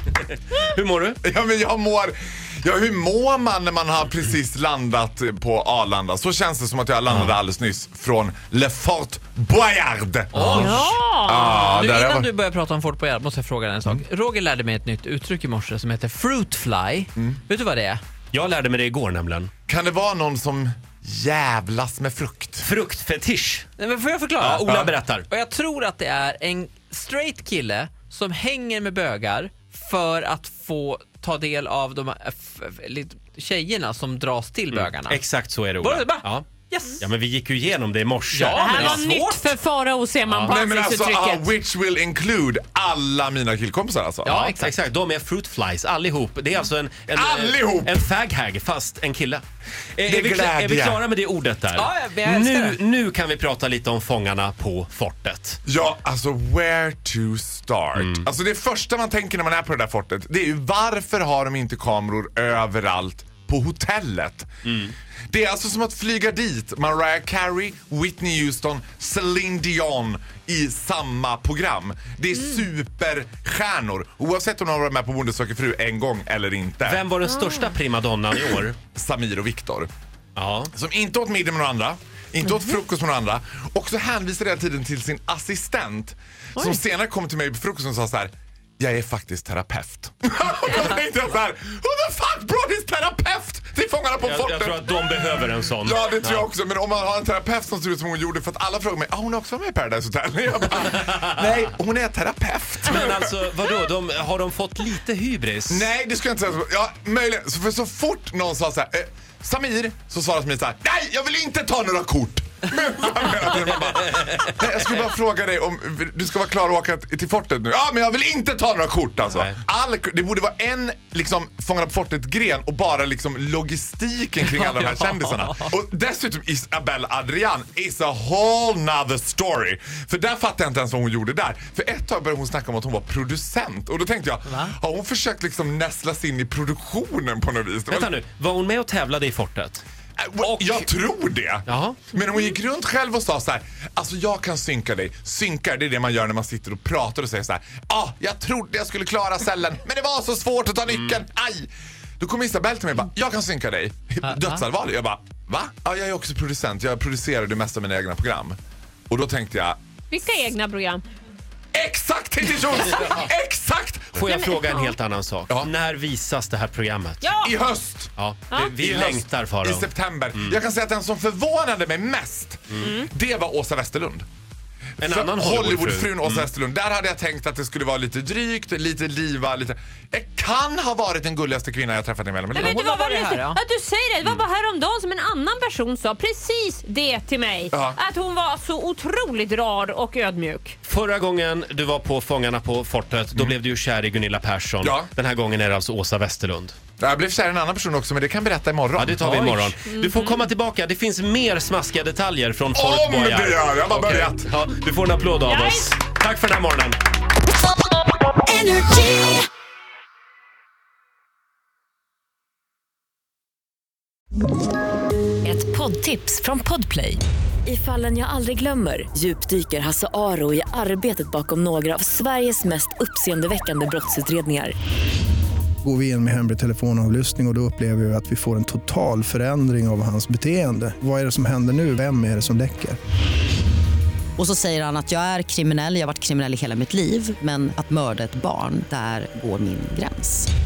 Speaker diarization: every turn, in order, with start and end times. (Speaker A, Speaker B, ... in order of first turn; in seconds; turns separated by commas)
Speaker A: 0.6-1.2, Speaker B: 1.2-12.3, Speaker A: 10.3-10.8, Speaker C: 10.4-18.0, Speaker D: 10.6-11.2, Speaker A: 18.3-19.5, Speaker B: 19.7-22.7, Speaker A: 22.6-23.7, Speaker C: 23.8-35.2, Speaker A: 24.4-25.3, Speaker A: 34.7-36.5, Speaker C: 35.8-37.0, Speaker A: 37.0-39.0, Speaker C: 38.3-39.5, Speaker D: 38.5-41.5, Speaker A: 40.3-40.5, Speaker B: 40.5-44.5, Speaker C: 44.2-44.8, Speaker A: 44.3-49.4, Speaker B: 47.1-48.0, Speaker A: 50.0-55.6, Speaker B: 50.1-51.0, Speaker C: 51.8-52.8, Speaker B: 55.7-64.5, Speaker A: 58.0-58.3, Speaker B: 65.3-77.1, Speaker A: 76.8-78.8, Speaker D: 77.3-77.7, Speaker B: 78.9-79.9, Speaker A: 80.4-80.7, Speaker B: 80.7-103.3, Speaker A: 94.2-96.5, Speaker A: 102.9-105.9, Speaker B: 105.7-138.1, Speaker C: 124.6-125.0, Speaker A: 137.9-139.8, Speaker B: 140.2-158.6, Speaker A: 140.4-140.9, Speaker A: 141.7-142.0, Speaker B: 159.1-159.8, Speaker D: 160.1-161.0, Speaker B: 161.7-164.2, Speaker A: 164.2-167.2, Speaker D: 164.3-164.9, Speaker D: 167.2-167.5, Speaker B: 167.4-168.1, Speaker A: 168.2-169.9, Speaker D: 168.5-168.8, Speaker B: 168.8-174.3, Speaker D: 172.8-173.1, Speaker A: 175.0-176.5, Speaker B: 175.0-182.8, Speaker D: 182.5-190.8, Speaker C: 182.6-183.6, Speaker B: 187.7-188.0, Speaker A: 190.8-196.8, Speaker B: 194.8-195.1, Speaker B: 197.0-199.7, Speaker A: 199.0-207.0, Speaker D: 199.9-200.4, Speaker B: 202.8-204.5, Speaker D: 205.4-205.9, Speaker E: 208.5-209.4, Speaker E: 215.4-224.8, Speaker F: 225.8-233.0, Speaker G: 234.4-240.5